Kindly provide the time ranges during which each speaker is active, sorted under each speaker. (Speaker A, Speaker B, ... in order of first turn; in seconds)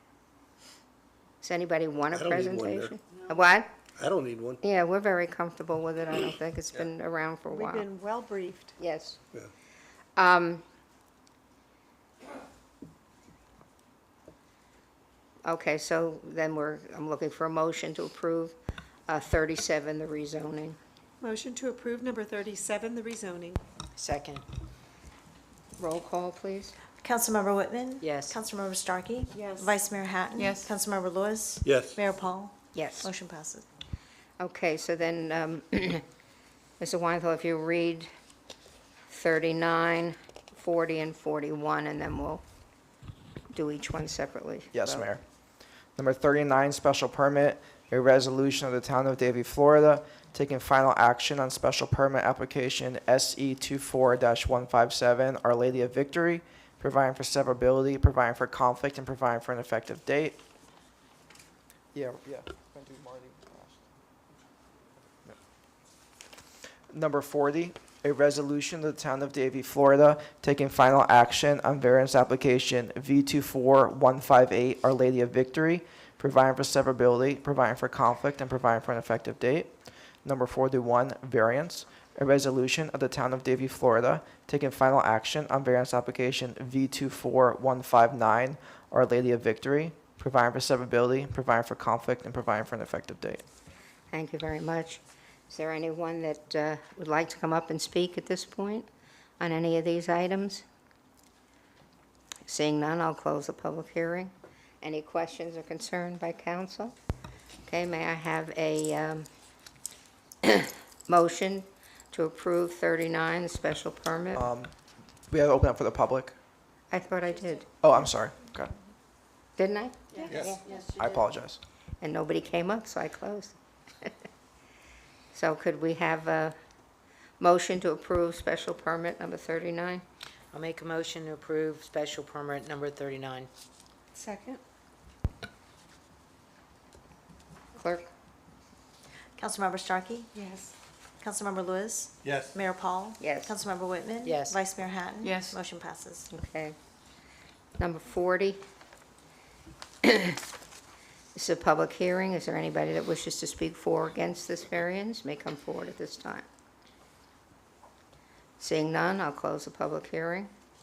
Speaker A: 1.4-3.7, 4.6-7.9, 8.8-9.2, 10.2-10.6, 15.4-18.6, 19.1-20.8, 25.8-26.7, 32.7-33.1, 34.4-36.0, 36.8-38.1, 39.1-42.4, 43.5-45.1, 94.1-98.9, 99.4-100.6, 102.5-106.9, 107.7-109.3, 110.4-114.4, 116.9-117.7, 119.6-120.6, 122.0-124.1, 125.3-126.5, 127.4-130.0, 137.7-138.1, 143.2-143.5, 146.3-146.8, 147.8-148.6, 150.0-150.4, 151.3-156.4, 158.6-160.5
Speaker B: 2.1-3.0, 4.0-4.6, 31.6-32.0, 120.3-120.6, 142.2-142.5
Speaker C: 7.5-8.7, 21.2-23.6, 30.4-30.7, 120.7-121.0, 134.2-134.6, 140.4-140.7, 145.2-145.6
Speaker D: 23.9-24.4, 28.0-28.4, 130.5-133.5, 144.2-144.6
Speaker E: 27.0-33.6, 139.4-140.3, 141.2-146.3
Speaker F: 44.7-45.2, 46.0-60.4, 61.9-63.8, 66.9-79.7, 80.2-93.4, 114.3-114.7, 115.3-116.3, 117.8-118.7, 121.0-121.6